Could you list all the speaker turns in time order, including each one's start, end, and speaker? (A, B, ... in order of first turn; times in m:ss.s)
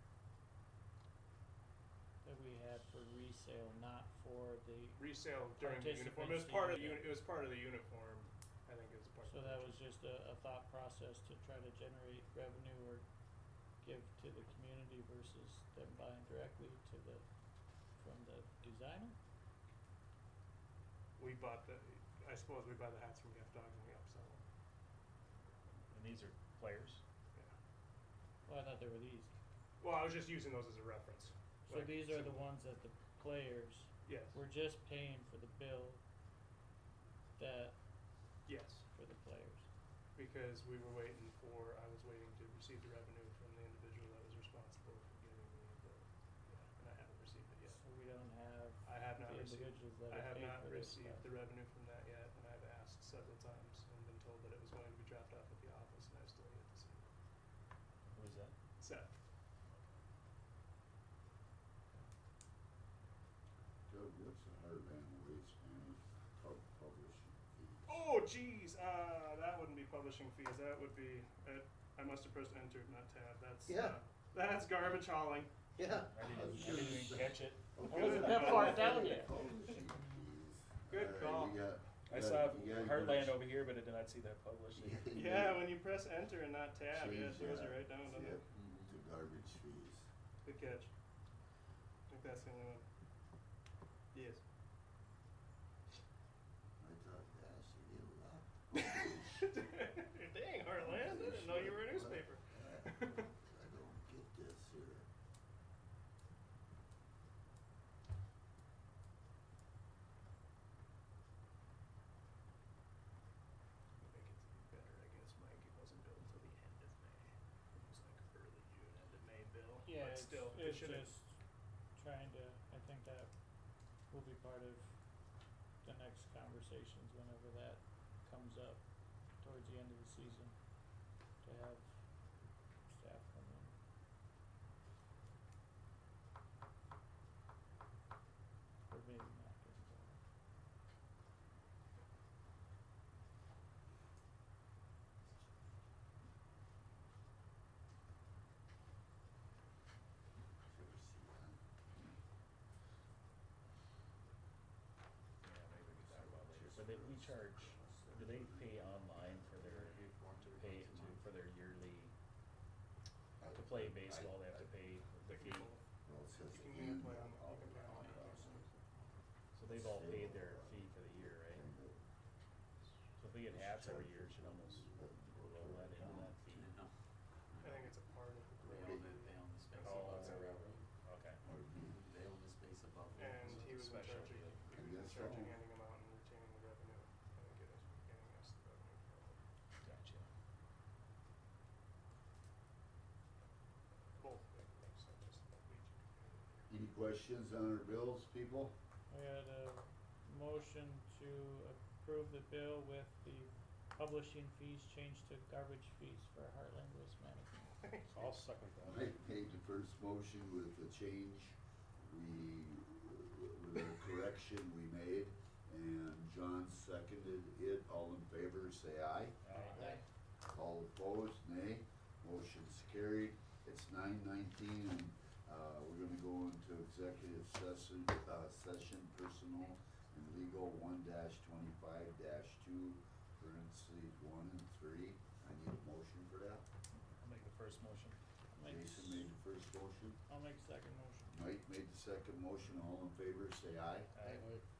0:02.2-0:07.2 A
0:05.0-0:09.8 B
0:09.2-0:13.1 A
0:13.8-0:17.3 A
0:18.0-0:19.2 A
0:21.2-0:24.4 B
0:25.9-0:27.0 C
0:28.5-0:29.3 A
0:29.8-0:32.4 B
0:31.7-0:36.0 A
0:34.1-0:34.4 B
0:37.4-0:37.8 A
0:38.5-0:38.8 B
0:38.9-0:39.7 A
0:40.2-0:47.8 B
0:47.7-0:51.3 A
0:48.8-0:57.1 B
0:58.0-0:58.6 C
0:58.8-0:59.1 B
1:03.9-1:08.0 D
1:07.9-1:15.5 B
1:13.7-1:14.0 D
1:15.8-1:23.4 D
1:16.1-1:18.5 C
1:16.6-1:16.9 A
1:17.8-1:20.2 A
1:17.9-1:19.2 B
1:20.9-1:21.6 B
1:22.1-1:25.1 C
1:24.8-1:25.8 D
1:25.1-1:28.4 B
1:26.9-1:30.1 D
1:28.6-1:29.0 E
1:30.4-1:30.9 B
1:32.1-1:32.8 B
1:34.1-1:34.4 B
1:36.8-1:39.5 D
1:39.4-1:43.3 B
1:40.8-1:45.1 D
1:54.0-2:01.2 B
1:59.8-2:01.4 A
2:02.0-2:03.3 A
2:04.1-2:04.9 A
2:05.8-2:08.8 A
2:09.4-2:10.6 A
2:11.4-2:11.9 A
2:12.9-2:13.7 A
2:18.9-2:20.2 A
2:30.7-2:32.2 D
2:35.4-2:42.1 C
2:35.9-2:39.2 D
2:39.5-2:41.3 E
2:43.4-2:44.7 D
2:43.5-2:45.7 C
2:45.3-2:45.9 B
2:46.0-2:48.8 D
2:46.5-2:48.7 B
2:47.9-2:48.6 E
2:49.5-2:51.7 C
2:49.7-2:52.0 D
2:53.2-2:56.7 C
2:53.4-2:56.4 D
2:56.0-2:56.9 E
2:57.5-2:58.0 E
2:57.6-3:00.7 B
2:58.6-2:59.1 D
2:58.6-3:00.8 E
2:59.8-3:01.4 C
3:01.4-3:02.0 D
3:01.8-3:05.4 E
3:03.1-3:09.4 B
3:03.4-3:04.6 C
3:04.7-3:05.6 D
3:09.8-3:10.3 C
3:14.2-3:16.7 B
3:16.7-3:18.8 D
3:19.1-3:27.8 A
3:27.8-3:28.3 B
3:28.1-3:29.1 C
3:28.8-3:39.4 D
3:39.4-3:39.9 C
3:39.6-3:40.0 A
3:40.5-3:56.7 D
3:57.2-3:58.2 C
3:58.6-3:59.3 A
3:58.6-4:00.2 D
4:00.3-4:01.4 A
4:01.3-4:04.1 D
4:04.1-4:04.5 C
4:04.2-4:04.6 E